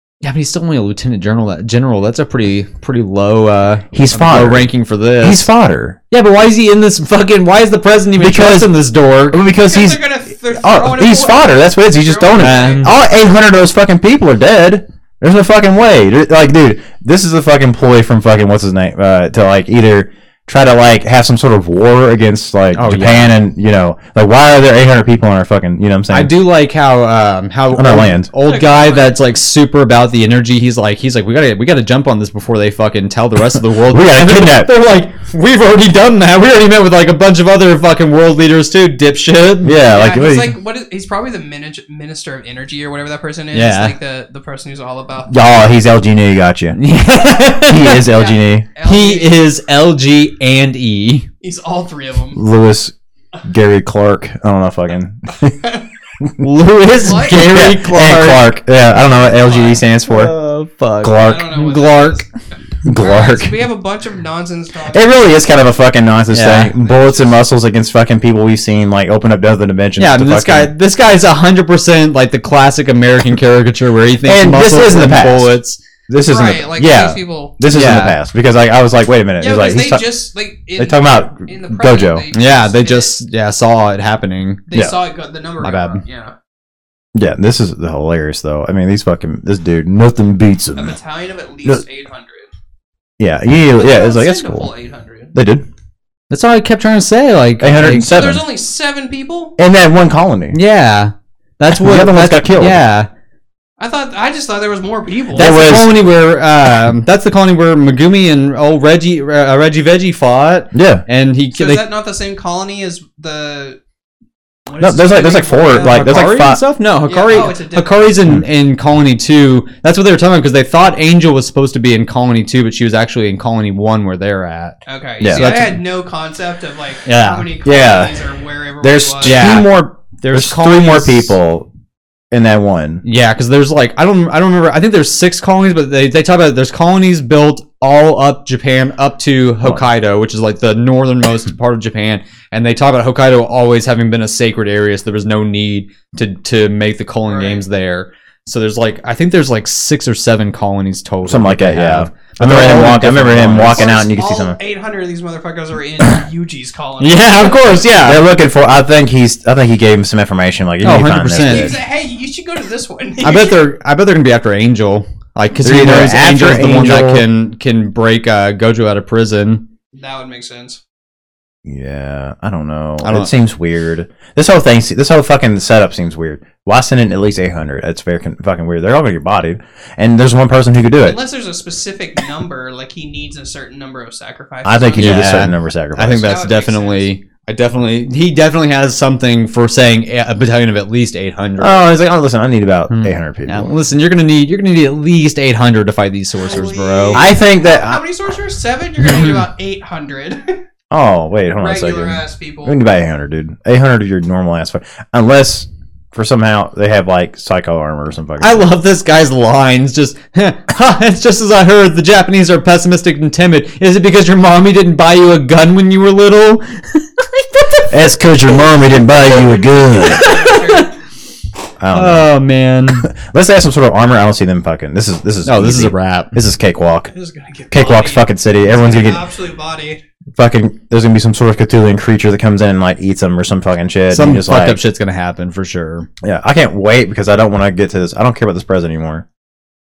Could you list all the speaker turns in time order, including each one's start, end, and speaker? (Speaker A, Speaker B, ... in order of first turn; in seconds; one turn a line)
Speaker A: 0.2-5.5
Speaker B: 3.9-4.7
Speaker B: 5.2-6.0
Speaker A: 6.1-9.4
Speaker B: 8.2-8.7
Speaker B: 9.3-26.3
Speaker C: 9.5-12.9
Speaker A: 12.4-12.9
Speaker A: 22.7-23.3
Speaker A: 26.1-39.8
Speaker B: 27.7-28.3
Speaker C: 28.4-29.3
Speaker B: 33.8-34.7
Speaker B: 39.6-40.5
Speaker C: 39.8-45.5
Speaker A: 43.5-43.9
Speaker B: 45.3-46.8
Speaker A: 46.8-48.0
Speaker B: 47.4-48.7
Speaker C: 48.0-49.4
Speaker A: 48.8-51.3
Speaker C: 51.4-52.4
Speaker B: 52.3-52.9
Speaker B: 53.4-55.5
Speaker A: 56.4-58.5
Speaker C: 57.0-57.4
Speaker B: 57.3-60.3
Speaker C: 59.3-59.8
Speaker A: 60.0-62.2
Speaker B: 61.0-61.5
Speaker C: 61.1-62.3
Speaker B: 62.8-63.5
Speaker C: 62.9-65.0
Speaker B: 64.9-70.7
Speaker A: 66.3-66.7
Speaker C: 66.8-67.4
Speaker A: 70.0-75.8
Speaker B: 74.2-75.6
Speaker B: 76.1-80.0
Speaker C: 76.2-77.5
Speaker A: 77.7-78.2
Speaker C: 79.4-83.2
Speaker B: 80.8-82.3
Speaker A: 82.3-84.6
Speaker C: 84.7-86.3
Speaker A: 85.6-86.0
Speaker B: 87.1-91.0
Speaker C: 90.8-92.5
Speaker B: 93.2-94.7
Speaker C: 93.7-95.3
Speaker B: 95.3-95.6
Speaker A: 96.3-98.1
Speaker B: 97.6-98.4
Speaker C: 98.0-99.5
Speaker B: 99.6-100.5
Speaker A: 100.5-103.1
Speaker B: 101.7-102.8
Speaker C: 103.8-105.6
Speaker B: 105.3-106.0
Speaker A: 105.3-111.8
Speaker B: 110.7-111.0
Speaker C: 111.5-113.8
Speaker C: 114.7-116.2
Speaker B: 114.8-116.6
Speaker A: 115.7-124.8
Speaker C: 117.1-118.1
Speaker C: 124.9-129.6
Speaker B: 125.2-125.7
Speaker A: 125.3-125.7
Speaker A: 127.0-127.5
Speaker B: 127.6-128.2
Speaker B: 128.8-131.7
Speaker A: 129.2-131.3
Speaker B: 132.3-133.0
Speaker A: 133.0-154.0
Speaker C: 147.3-147.6
Speaker B: 151.2-154.6
Speaker C: 153.6-157.8
Speaker A: 157.0-158.2
Speaker B: 158.0-161.8
Speaker A: 160.8-161.8
Speaker C: 161.4-163.6
Speaker A: 163.2-169.6
Speaker B: 165.6-167.2
Speaker C: 169.9-170.8
Speaker B: 171.6-181.2
Speaker A: 173.0-173.3
Speaker C: 181.0-185.5
Speaker B: 184.6-186.3
Speaker A: 185.0-191.8
Speaker C: 186.1-187.1
Speaker B: 191.6-193.7
Speaker A: 192.9-197.2
Speaker C: 196.4-200.6
Speaker B: 197.1-198.0
Speaker A: 199.1-199.4
Speaker B: 200.9-208.7
Speaker C: 201.6-202.8
Speaker A: 208.4-217.9
Speaker B: 217.9-220.3
Speaker C: 219.1-220.9
Speaker A: 219.9-220.9
Speaker B: 221.8-222.3
Speaker A: 221.9-223.1
Speaker B: 223.0-227.1
Speaker A: 225.4-226.4
Speaker C: 227.1-230.0
Speaker B: 227.7-229.2
Speaker B: 230.3-234.8
Speaker A: 234.1-236.1
Speaker B: 236.2-239.2